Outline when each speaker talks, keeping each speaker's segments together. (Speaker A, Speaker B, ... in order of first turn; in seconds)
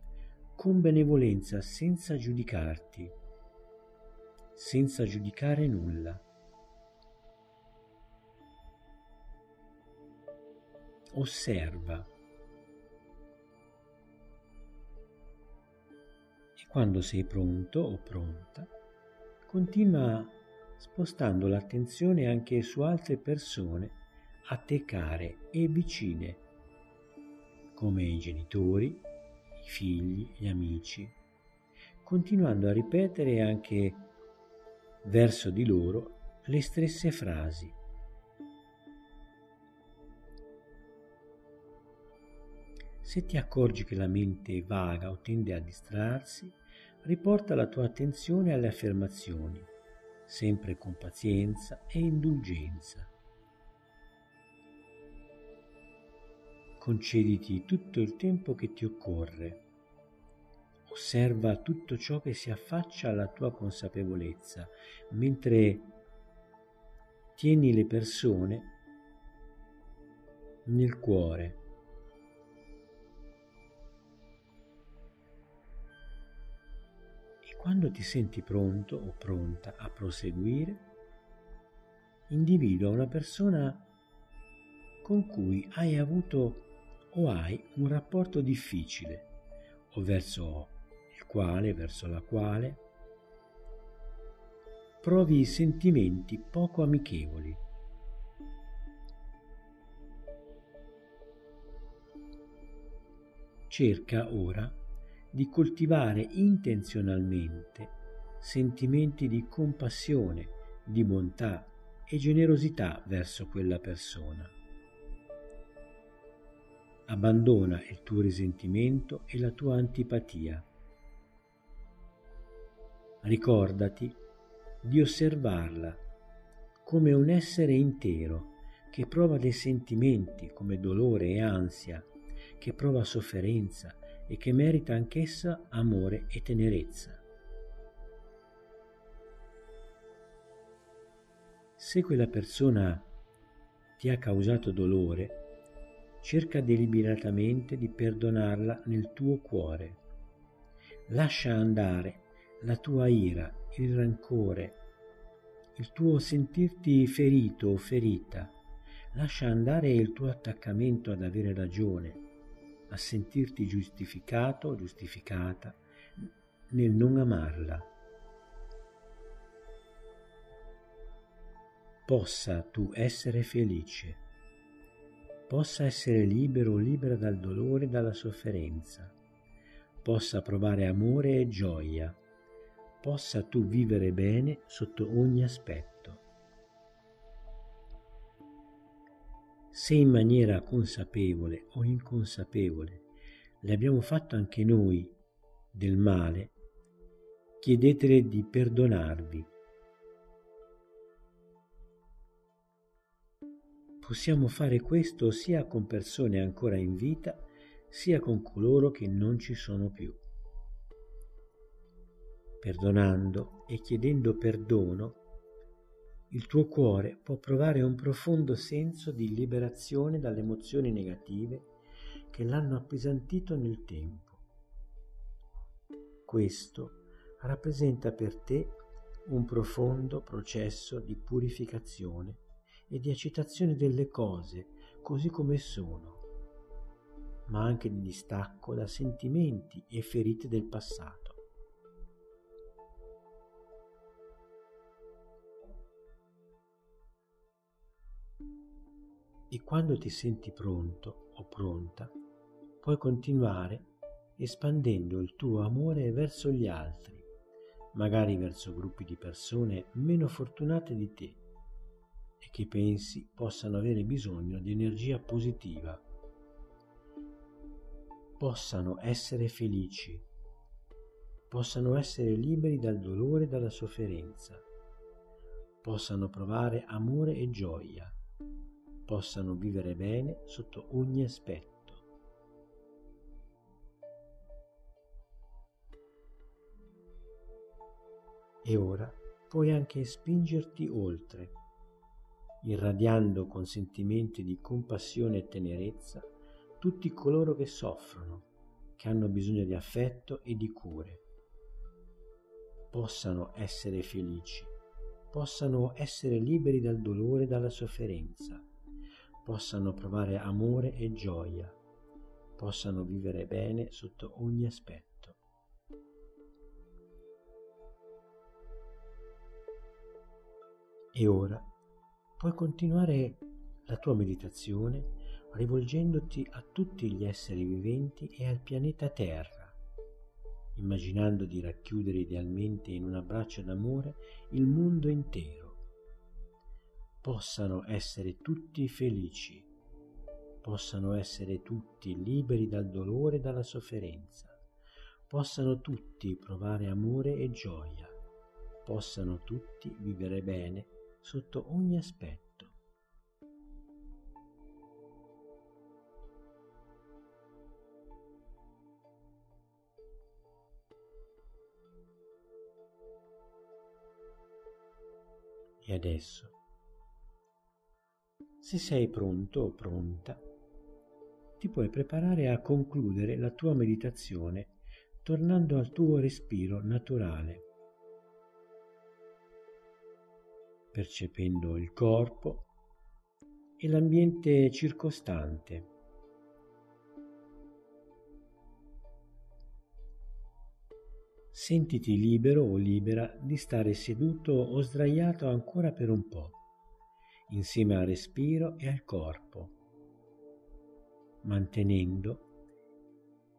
Speaker A: 0.6-3.1, 4.5-6.2, 11.1-12.1, 16.6-18.7, 19.5-26.5, 27.7-31.2, 32.0-34.1, 35.0-37.8, 43.0-49.7, 50.2-53.1, 56.8-59.6, 60.9-66.0, 67.3-68.8, 70.6-71.6, 77.4-80.9, 82.3-83.9, 85.0-89.3, 89.9-92.8, 95.0-97.6, 103.7-104.8, 105.3-114.5, 117.1-120.7, 123.2-124.2, 124.8-126.0, 126.8-132.1, 132.6-137.2, 141.8-143.1, 144.0-145.4, 146.2-150.0, 151.1-154.8, 155.8-158.6, 159.1-162.2, 162.9-167.9, 172.1-174.2, 175.5-179.2, 180.0-182.2, 183.0-186.2, 189.7-193.1, 193.6-195.2, 195.7-196.5, 197.6-199.5, 204.0-210.2, 212.6-215.2, 216.3-221.7, 222.3-224.4, 226.2-236.2, 237.5-241.4, 249.5-252.1, 252.8-257.3, 257.9-261.4, 262.4-266.0, 268.4-270.2, 271.5-274.6, 275.8-278.1, 279.1-282.0, 288.6-291.6, 292.6-301.2, 302.9-304.7, 305.3-308.6, 309.4-311.8, 312.6-315.4, 321.1-321.7, 322.4-329.8, 330.7-335.8, 337.2-339.7, 340.6-344.6, 345.3-348.1, 348.8-352.8, 365.8-366.6, 368.6-370.4, 371.6-377.7, 380.9-382.7, 383.8-385.9, 391.5-396.6, 397.5-399.8, 401.4-402.5